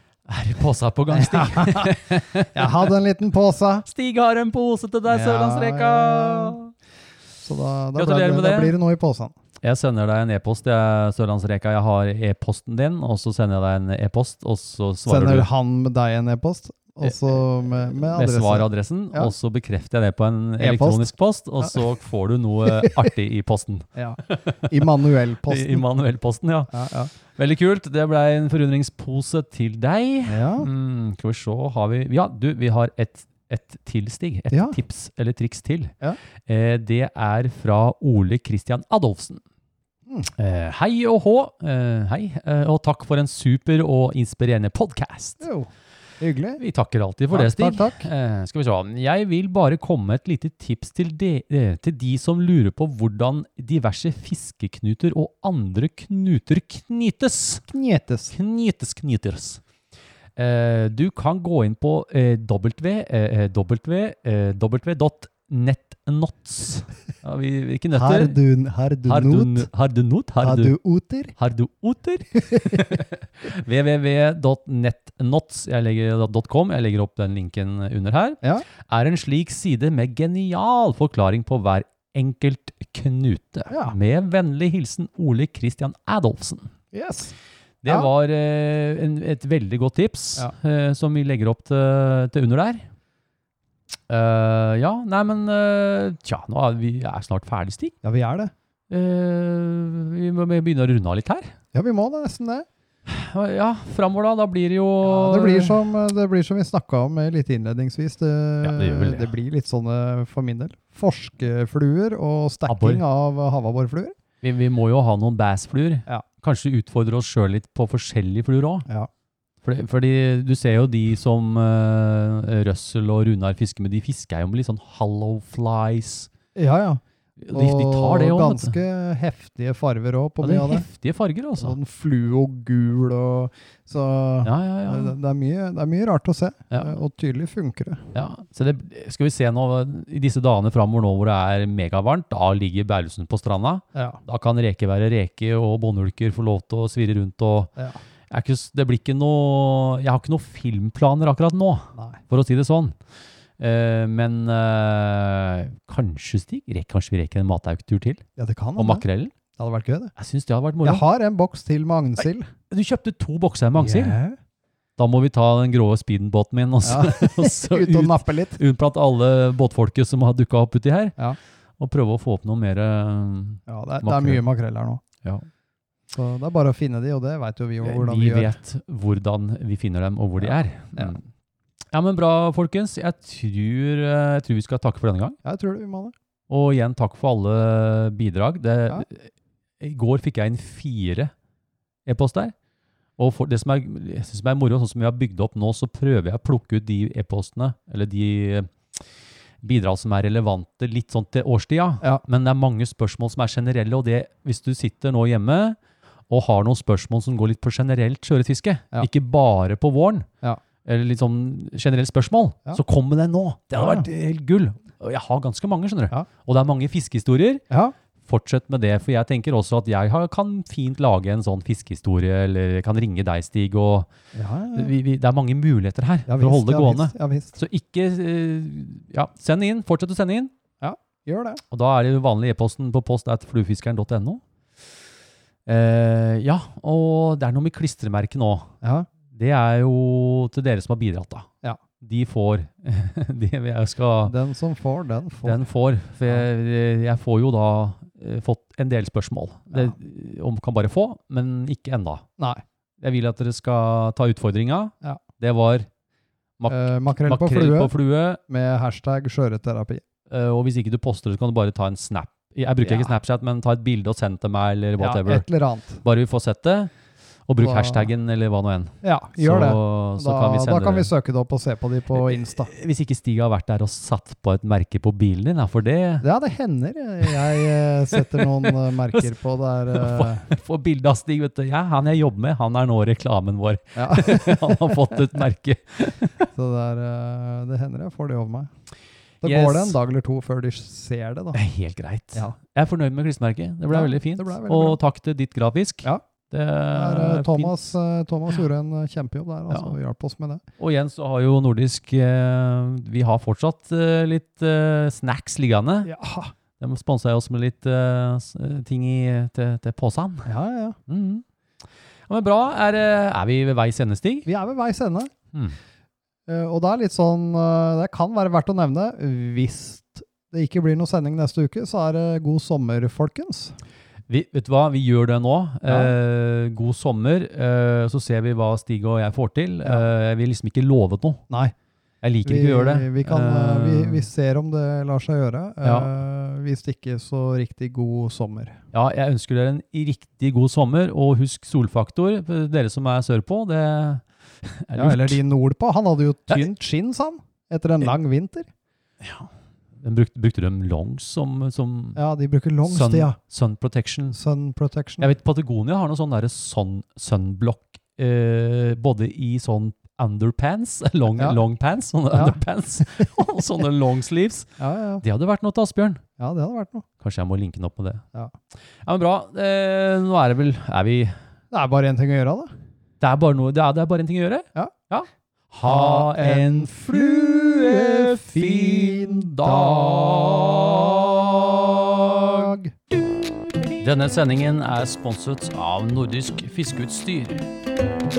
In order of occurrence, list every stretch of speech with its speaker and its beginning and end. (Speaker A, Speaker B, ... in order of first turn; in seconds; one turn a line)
Speaker A: 0.3-2.8
Speaker B: 1.1-2.0
Speaker B: 2.5-3.9
Speaker A: 3.9-6.7
Speaker B: 5.1-6.6
Speaker B: 7.4-9.3
Speaker A: 8.0-8.7
Speaker A: 9.6-15.5
Speaker B: 15.1-19.3
Speaker A: 18.0-24.9
Speaker B: 20.6-21.8
Speaker B: 22.7-23.1
Speaker B: 23.9-25.9
Speaker A: 25.5-26.7
Speaker B: 26.7-27.1
Speaker A: 27.3-35.9
Speaker B: 30.3-30.7
Speaker B: 34.5-34.8
Speaker A: 36.5-39.4
Speaker A: 40.4-45.5
Speaker B: 45.4-45.7
Speaker B: 46.2-46.6
Speaker A: 46.6-57.6
Speaker B: 47.3-48.1
Speaker B: 57.7-58.3
Speaker A: 58.3-59.6
Speaker A: 60.4-68.4
Speaker B: 67.9-69.7
Speaker A: 69.0-70.8
Speaker B: 70.4-71.3
Speaker A: 71.4-86.7
Speaker B: 72.4-73.0
Speaker B: 83.7-84.0
Speaker B: 86.9-87.3
Speaker A: 87.8-92.9
Speaker A: 94.1-98.0
Speaker B: 98.0-98.5
Speaker A: 98.9-101.5
Speaker B: 101.7-102.7
Speaker A: 103.1-105.8
Speaker B: 105.0-114.2
Speaker A: 108.6-109.3
Speaker A: 112.7-113.0
Speaker A: 114.4-118.9
Speaker A: 119.6-126.3
Speaker B: 126.5-127.0
Speaker A: 127.4-128.8
Speaker B: 127.5-130.9
Speaker A: 130.4-131.8
Speaker B: 131.6-138.0
Speaker A: 134.4-135.1
Speaker A: 136.7-137.0
Speaker A: 138.1-147.7
Speaker B: 143.9-144.2
Speaker A: 148.3-153.0
Speaker B: 151.9-152.2
Speaker A: 153.6-158.2
Speaker B: 158.4-159.0
Speaker A: 158.8-159.3
Speaker B: 159.6-160.1
Speaker A: 160.2-161.0
Speaker B: 160.8-162.5
Speaker A: 162.7-164.2
Speaker B: 163.8-164.4
Speaker A: 165.0-171.2
Speaker B: 166.8-168.6
Speaker A: 171.8-174.4
Speaker B: 173.7-175.0
Speaker B: 176.1-178.6
Speaker A: 177.8-181.3
Speaker B: 180.4-181.2
Speaker A: 181.9-185.4
Speaker B: 185.4-186.1
Speaker A: 186.5-191.3
Speaker A: 192.1-192.6
Speaker A: 193.2-199.0
Speaker A: 199.6-205.8
Speaker A: 206.3-210.3
Speaker A: 210.8-217.7
Speaker B: 213.7-214.1
Speaker B: 217.7-217.9
Speaker A: 218.2-224.1
Speaker B: 224.3-224.9
Speaker A: 224.8-230.5
Speaker B: 226.3-227.6
Speaker B: 230.8-231.6
Speaker A: 231.7-234.4
Speaker A: 235.7-238.7
Speaker B: 238.8-239.1
Speaker A: 239.3-241.5
Speaker A: 242.0-244.3
Speaker B: 244.2-245.7
Speaker A: 245.4-252.2
Speaker A: 253.0-255.9
Speaker A: 256.6-258.4
Speaker B: 256.7-257.9
Speaker B: 258.5-260.0
Speaker A: 260.3-265.4
Speaker B: 262.8-263.1
Speaker B: 265.0-266.0
Speaker A: 266.0-266.9
Speaker A: 267.5-271.1
Speaker B: 267.6-268.1
Speaker B: 269.0-272.7
Speaker A: 272.1-276.2
Speaker B: 276.2-280.5
Speaker A: 278.1-279.4
Speaker A: 279.9-286.5
Speaker B: 284.0-285.2
Speaker B: 286.5-288.7
Speaker A: 289.4-290.0
Speaker B: 289.4-291.6
Speaker A: 291.5-297.8
Speaker B: 293.9-295.0
Speaker B: 296.9-300.6
Speaker A: 300.8-306.1
Speaker B: 306.1-306.5
Speaker A: 306.8-310.5
Speaker B: 310.5-311.0
Speaker A: 311.1-311.4
Speaker A: 312.3-314.5
Speaker B: 314.5-315.3
Speaker B: 316.5-323.8
Speaker A: 324.3-331.4
Speaker B: 325.9-326.1
Speaker B: 331.5-331.8
Speaker A: 332.2-334.2
Speaker B: 332.4-338.8
Speaker A: 335.8-336.1
Speaker A: 338.9-345.4
Speaker B: 344.9-348.7
Speaker A: 349.2-349.5
Speaker A: 350.0-352.2
Speaker B: 352.2-353.4
Speaker A: 352.9-354.4
Speaker B: 354.3-355.3
Speaker A: 355.2-364.7
Speaker B: 362.3-362.6
Speaker B: 364.8-365.2
Speaker A: 365.2-366.2
Speaker B: 366.4-367.1
Speaker A: 367.2-368.2
Speaker A: 369.0-371.4
Speaker B: 371.7-372.7
Speaker A: 373.2-382.7
Speaker B: 375.9-381.1
Speaker B: 382.3-382.9
Speaker A: 384.0-387.7